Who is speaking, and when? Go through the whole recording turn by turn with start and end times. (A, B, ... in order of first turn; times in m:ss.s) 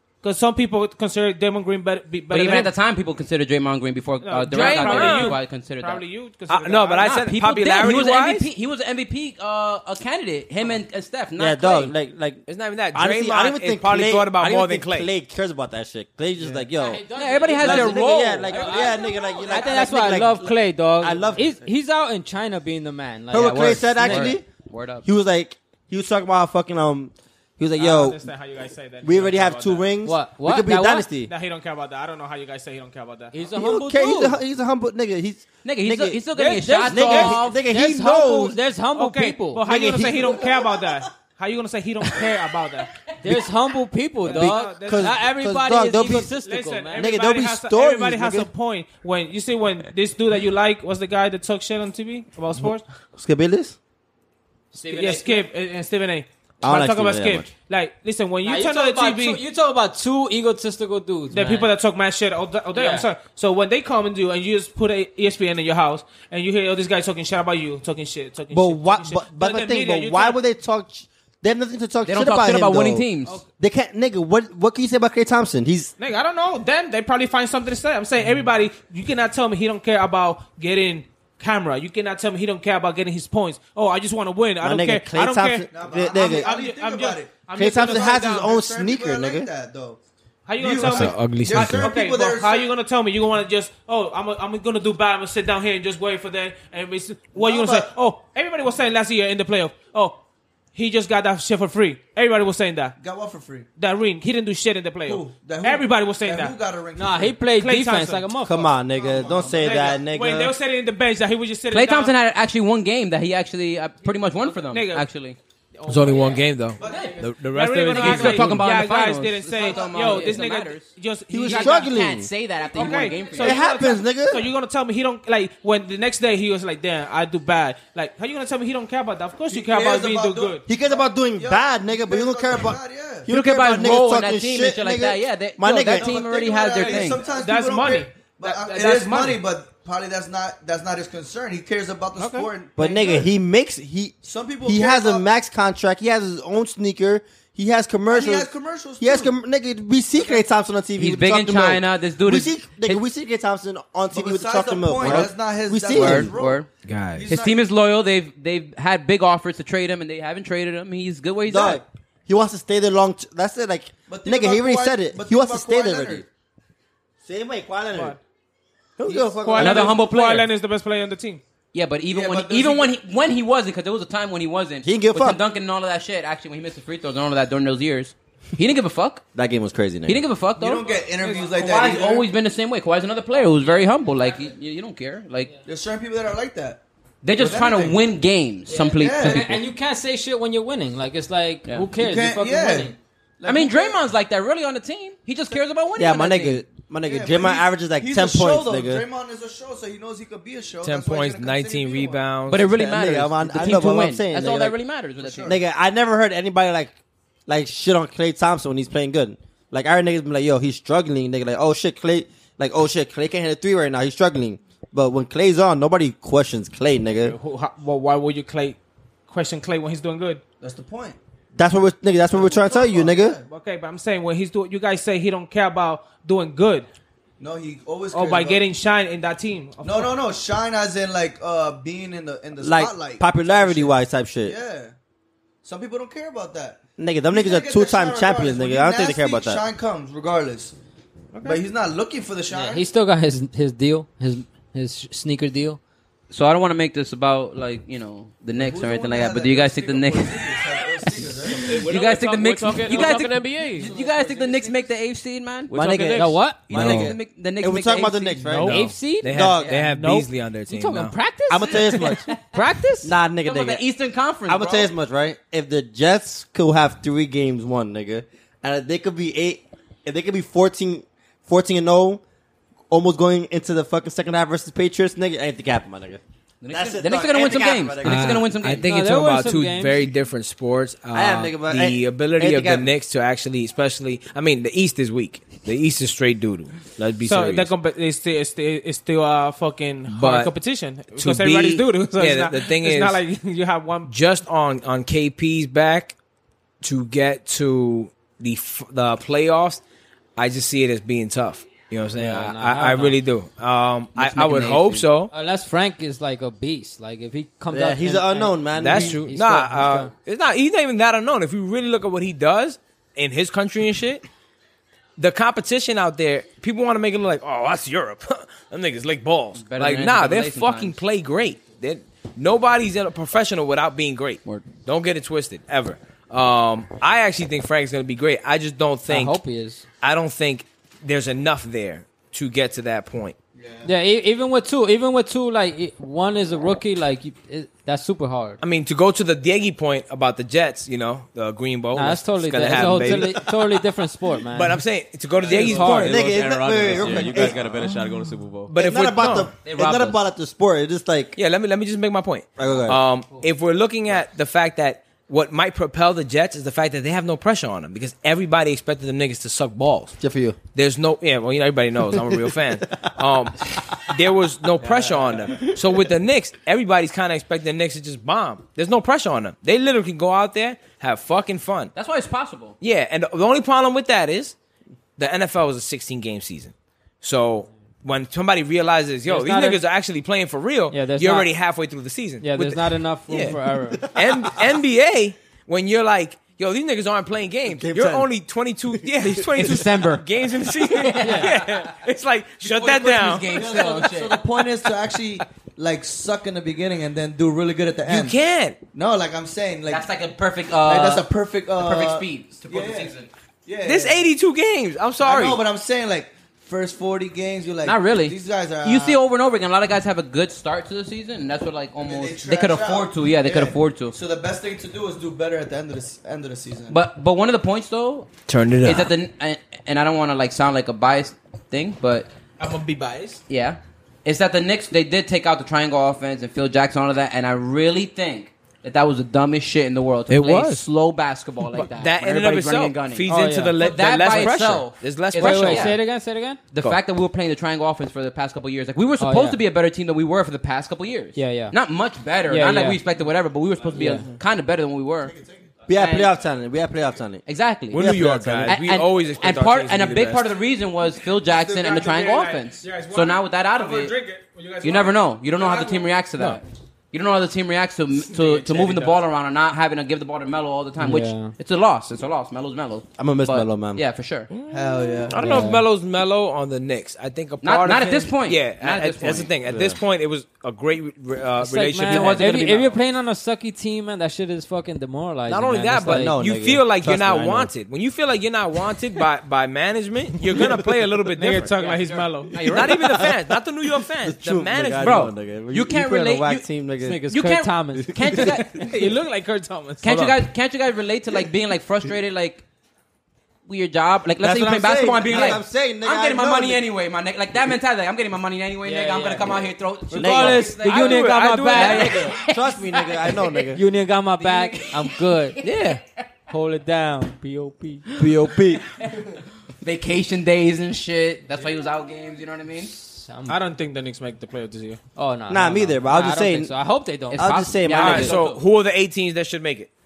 0:00.2-0:02.7 A
0:02.3-0:06.1 B
0:04.2-0:07.2 A
0:04.5-0:05.4 C
0:06.5-0:08.5 C
0:07.0-0:11.9 B
0:11.4-0:17.0 D
0:12.5-0:15.1 C
0:16.7-0:24.4 E
0:17.2-0:19.0 B
0:17.6-0:21.6 D
0:18.6-0:18.9 A
0:23.3-0:24.5 D
0:24.0-0:25.1 B
0:25.0-0:28.3 D
0:27.8-0:29.9 A
0:29.0-0:31.3 D
0:30.0-0:31.1 E
0:31.2-0:33.3 A
0:33.3-0:34.4 E
0:33.5-0:36.2 D
0:35.6-0:37.6 B
0:36.4-0:39.6 E
0:36.9-0:38.6 D
0:39.0-0:42.9 A
0:39.6-0:40.4 D
0:43.2-0:47.1 E
0:44.2-0:45.2 A
0:44.3-0:46.3 D
0:46.3-0:52.8 A
0:47.0-0:48.5 D
0:52.6-0:53.8 D
0:54.8-0:55.4 E
0:54.9-0:59.4 A
0:54.9-0:55.2 B
0:56.6-0:57.5 D
0:58.4-1:01.7 E
1:01.3-1:10.4 A
1:02.7-1:03.1 E
1:08.5-1:15.9 D
1:12.0-1:13.4 B
1:16.0-1:28.5 A
1:24.6-1:26.5 D
1:25.7-1:30.0 F
1:27.6-1:29.5 D
1:30.5-1:40.2 A
1:30.6-1:32.7 F
1:30.8-1:32.0 C
1:37.3-1:37.9 F
1:40.8-1:43.0 A
1:43.0-1:43.7 F
1:43.8-1:46.6 A
1:45.0-1:47.4 F
1:47.0-1:48.7 E
1:47.5-1:48.3 A
1:48.4-1:50.5 D
1:48.9-1:50.0 F
1:49.5-1:52.1 A
1:51.7-1:55.4 B
1:54.6-1:55.1 A
1:55.8-1:56.4 A
1:55.9-1:58.6 C
1:56.8-1:57.2 F
1:57.4-2:02.0 A
1:57.9-2:00.9 B
1:59.6-2:00.4 F
2:01.3-2:02.3 D
2:01.4-2:03.7 B
2:02.7-2:10.7 A
2:03.4-2:04.4 D
2:09.5-2:13.3 F
2:10.7-2:16.2 D
2:13.3-2:17.2 B
2:15.9-2:23.3 F
2:16.8-2:19.4 A
2:22.2-2:22.5 A
2:22.8-2:36.4 D
2:24.2-2:25.2 F
2:28.1-2:29.3 F
2:31.0-2:33.0 B
2:34.1-2:37.6 F
2:35.9-2:36.7 B
2:36.8-2:37.3 C
2:37.3-2:41.8 B
2:41.5-2:46.2 D
2:44.1-2:46.3 F
2:47.2-2:48.2 D
2:47.9-2:48.2 A
2:49.0-2:50.0 D
2:49.4-2:51.4 A
2:49.6-2:50.5 B
2:51.7-2:59.2 B
2:52.1-2:52.9 F
2:54.8-2:55.4 D
2:59.4-3:00.2 D
3:00.1-3:00.9 B
3:00.6-3:02.3 F
3:01.2-3:01.6 A
3:01.5-3:05.5 B
3:05.6-3:06.8 F
3:07.2-3:09.6 B
3:07.4-3:08.0 F
3:08.7-3:12.9 E
3:08.9-3:09.5 F
3:11.9-3:14.0 F
3:13.4-3:16.6 B
3:16.0-3:19.0 D
3:17.1-3:22.3 F
3:20.8-3:22.7 C
3:22.5-3:25.6 B
3:22.7-3:24.8 D
3:25.2-3:25.6 F
3:25.5-3:27.0 D
3:27.5-3:37.4 D
3:37.2-3:40.4 A
3:40.6-3:41.2 F
3:41.6-3:43.4 D
3:42.3-3:43.5 F
3:43.5-3:46.9 A
3:47.4-3:48.6 F
3:48.1-3:50.2 A
3:49.8-3:54.9 F
3:52.6-3:54.6 D
3:55.6-3:56.8 F
3:57.0-3:59.6 D
3:57.3-4:00.8 F
4:01.4-4:01.6 A
4:01.4-4:02.9 F
4:02.5-4:05.8 E
4:06.3-4:10.4 B
4:08.6-4:11.9 F
4:11.5-4:13.9 G
4:11.7-4:15.8 B
4:13.6-4:14.9 F
4:15.7-4:16.3 G
4:15.7-4:19.7 D
4:16.1-4:16.7 E
4:16.5-4:18.4 B
4:16.7-4:17.1 C
4:18.5-4:18.7 A
4:18.6-4:21.2 C
4:18.6-4:19.3 E
4:19.6-4:19.9 B
4:19.8-4:20.3 A
4:20.7-4:23.1 E
4:21.5-4:22.3 D
4:23.0-4:23.8 D
4:23.4-4:24.9 B
4:24.5-4:32.2 D
4:32.9-4:38.5 D
4:36.6-4:38.9 B
4:38.0-4:47.7 C
4:38.8-4:40.1 E
4:41.1-4:42.9 D
4:47.2-4:54.1 A
4:50.1-4:50.6 C
4:51.1-4:53.2 C
4:54.1-4:56.2 C
4:56.8-4:59.8 C
5:00.4-5:05.3 C
5:02.2-5:03.2 E
5:04.2-5:05.1 B
5:05.3-5:10.1 E
5:07.7-5:09.2 D
5:08.8-5:14.2 C
5:15.2-5:29.4 C
5:19.6-5:21.0 B
5:29.1-5:29.8 E
5:30.0-5:33.4 C
5:33.6-5:33.9 F
5:33.8-5:38.6 E
5:38.6-5:43.6 C
5:41.9-5:44.8 E
5:44.5-5:46.4 C
5:45.4-5:48.7 G
5:45.5-5:46.2 E
5:45.8-5:47.7 D
5:47.0-5:47.5 C
5:48.7-5:49.5 C
5:48.7-5:51.4 D
5:49.6-5:50.2 B
5:51.4-6:00.2 C
5:52.6-5:53.0 D
6:00.2-6:00.6 D
6:00.7-6:11.9 C
6:12.0-6:12.8 B
6:12.8-6:14.6 C
6:15.2-6:33.9 C
6:19.3-6:19.8 E
6:20.9-6:21.5 E
6:22.4-6:24.0 E
6:24.2-6:24.5 D
6:27.7-6:28.3 D
6:28.9-6:29.9 D
6:29.6-6:30.2 B
6:30.8-6:31.9 B
6:31.2-6:31.5 E
6:32.6-6:34.4 B
6:33.5-6:38.4 F
6:38.1-6:38.8 C
6:38.9-6:40.1 F
6:39.9-6:43.3 B
6:40.8-6:43.2 F
6:43.7-6:44.2 F
6:43.8-6:45.6 C
6:45.2-6:49.2 F
6:47.8-6:54.2 B
6:52.0-6:57.0 F
6:56.9-6:58.3 B
6:58.5-6:59.1 C
6:58.8-7:02.3 B
7:02.6-7:03.4 A
7:03.5-7:13.2 B
7:10.3-7:10.8 C
7:11.7-7:16.0 C
7:13.3-7:13.8 E
7:13.8-7:16.0 B
7:15.4-7:16.6 E
7:16.7-7:25.3 B
7:19.2-7:19.6 E
7:21.4-7:21.8 E
7:22.5-7:23.0 E
7:24.0-7:24.2 E
7:25.3-7:25.7 F
7:25.9-7:28.8 D
7:26.0-7:26.3 B
7:27.5-7:28.1 B
7:27.9-7:30.5 C
7:28.7-7:34.2 B
7:31.5-7:36.2 A
7:34.8-7:44.5 B
7:38.2-7:39.2 A
7:41.0-7:41.5 E
7:43.2-7:44.0 D
7:44.5-7:52.7 C
7:44.7-7:45.6 F
7:45.4-7:45.8 E
7:47.6-7:49.5 B
7:49.7-7:50.0 D
7:51.6-7:56.4 E
7:52.0-7:53.0 B
7:55.5-8:01.7 C
7:56.0-7:57.7 D
8:01.4-8:02.6 A
8:01.8-8:03.3 B
8:02.6-8:05.3 C
8:02.8-8:03.4 D
8:04.2-8:07.2 D
8:05.0-8:06.7 B
8:07.0-8:08.5 E
8:07.3-8:08.8 B
8:08.0-8:08.6 D
8:08.8-8:10.2 A
8:10.0-8:12.6 B
8:13.7-8:23.6 B
8:14.4-8:16.8 D
8:18.8-8:22.4 E
8:20.1-8:20.8 D
8:20.8-8:22.3 C
8:21.7-8:23.8 D
8:23.7-8:25.6 E
8:24.4-8:26.0 B
8:25.6-8:26.0 C
8:26.5-8:28.1 E
8:28.2-8:28.8 D
8:29.8-8:32.9 B
8:33.0-8:33.6 E
8:33.5-8:35.0 A
8:35.2-8:37.5 E
8:35.5-8:36.7 D
8:37.3-8:38.6 B
8:37.3-8:38.4 D
8:38.0-8:39.9 C